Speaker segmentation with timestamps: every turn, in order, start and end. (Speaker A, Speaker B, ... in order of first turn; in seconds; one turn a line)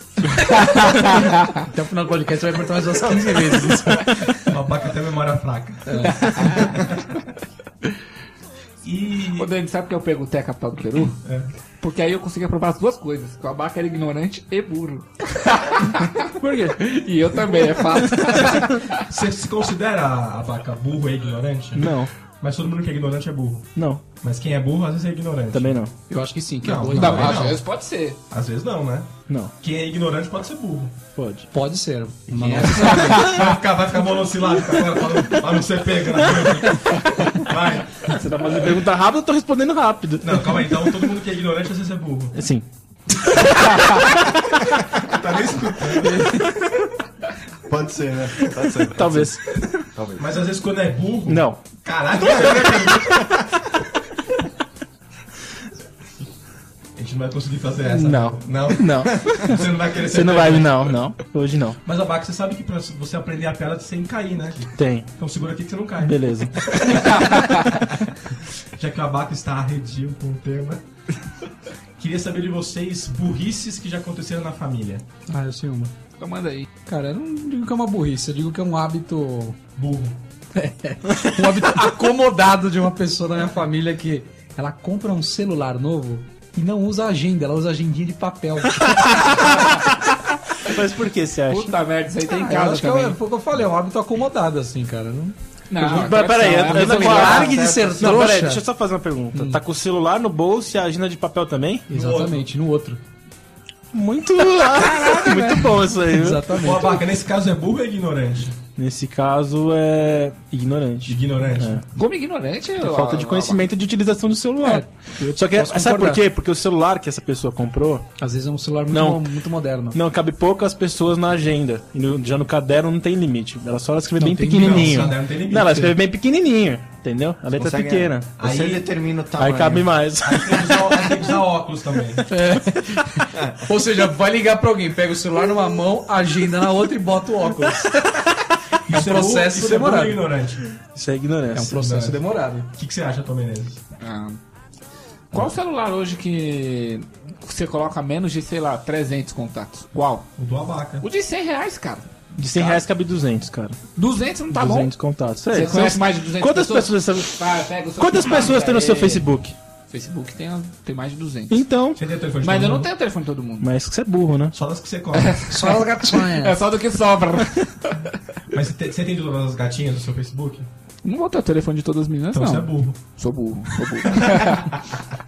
Speaker A: 0.4-1.6
Speaker B: 0.5-4.5
Speaker C: 4.5-7.1
Speaker B: 5.8-6.8
Speaker A: 6.0-6.8
Speaker C: 8.8-9.5
Speaker A: 9.3-11.2
Speaker C: 11.2-11.5
Speaker A: 11.8-19.0
Speaker C: 18.3-23.7
Speaker D: 21.7-22.1
Speaker D: 23.7-24.0
Speaker C: 24.2-25.9
Speaker D: 25.5-25.9
Speaker B: 26.1-27.5
Speaker C: 26.6-27.6
Speaker A: 26.9-28.2
Speaker C: 28.3-30.9
Speaker D: 29.3-29.5
Speaker D: 31.1-31.5
Speaker B: 31.5-33.4
Speaker C: 32.3-38.1
Speaker A: 32.6-33.5
Speaker A: 36.9-37.3
Speaker A: 38.1-38.7
Speaker D: 38.1-40.9
Speaker C: 40.2-42.4
Speaker D: 42.3-42.6
Speaker A: 43.5-44.1
Speaker C: 44.9-46.3
Speaker E: 47.7-50.2
Speaker D: 48.8-49.7
Speaker C: 50.2-53.5
Speaker D: 51.3-51.7
Speaker C: 57.0-61.0
Speaker D: 57.9-61.8
Speaker C: 61.8-67.9
Speaker D: 64.8-65.1
Speaker D: 66.0-66.8
Speaker A: 67.3-67.7
Speaker C: 68.8-70.8
Speaker C: 72.0-75.0
Speaker B: 75.3-75.9
Speaker A: 76.2-76.7
Speaker B: 76.9-79.6
Speaker C: 79.8-80.2
Speaker B: 80.5-89.9
Speaker D: 90.6-91.7
Speaker A: 91.5-93.2
Speaker B: 92.2-95.3
Speaker A: 95.7-97.5
Speaker D: 95.8-101.9
Speaker B: 96.6-98.6
Speaker E: 97.3-98.2
Speaker B: 99.3-99.6
Speaker B: 101.9-103.0
Speaker C: 101.9-102.5
Speaker D: 103.9-106.6
Speaker A: 104.7-105.8
Speaker B: 106.1-107.1
Speaker C: 106.6-108.5
Speaker D: 108.8-111.8
Speaker C: 111.0-111.8
Speaker A: 112.0-113.7
Speaker D: 112.8-118.1
Speaker B: 114.6-116.2
Speaker B: 118.2-120.0
Speaker D: 118.9-119.3
Speaker D: 119.9-128.3
Speaker B: 124.2-125.2
Speaker C: 124.5-125.9
Speaker E: 127.5-130.1
Speaker C: 128.4-128.8
Speaker D: 129.4-131.1
Speaker C: 130.2-132.2
Speaker B: 132.3-138.3
Speaker C: 138.9-140.7
Speaker B: 138.9-140.2
Speaker D: 140.9-141.8
Speaker B: 141.5-142.7
Speaker C: 141.8-142.2
Speaker C: 142.7-143.8
Speaker A: 144.0-144.4
Speaker A: 145.3-150.3
Speaker C: 150.4-151.1
Speaker A: 151.0-152.1
Speaker D: 152.3-153.8
Speaker A: 153.9-154.9
Speaker D: 154.5-157.4
Speaker A: 155.5-159.3
Speaker D: 158.0-159.6
Speaker A: 159.9-161.6
Speaker D: 161.5-162.0
Speaker C: 161.9-162.9
Speaker A: 162.4-163.7
Speaker D: 163.6-164.5
Speaker C: 164.5-165.4
Speaker A: 165.1-168.1
Speaker B: 165.5-166.6
Speaker C: 168.5-170.7
Speaker A: 171.0-174.8
Speaker C: 172.3-173.0
Speaker C: 174.1-174.6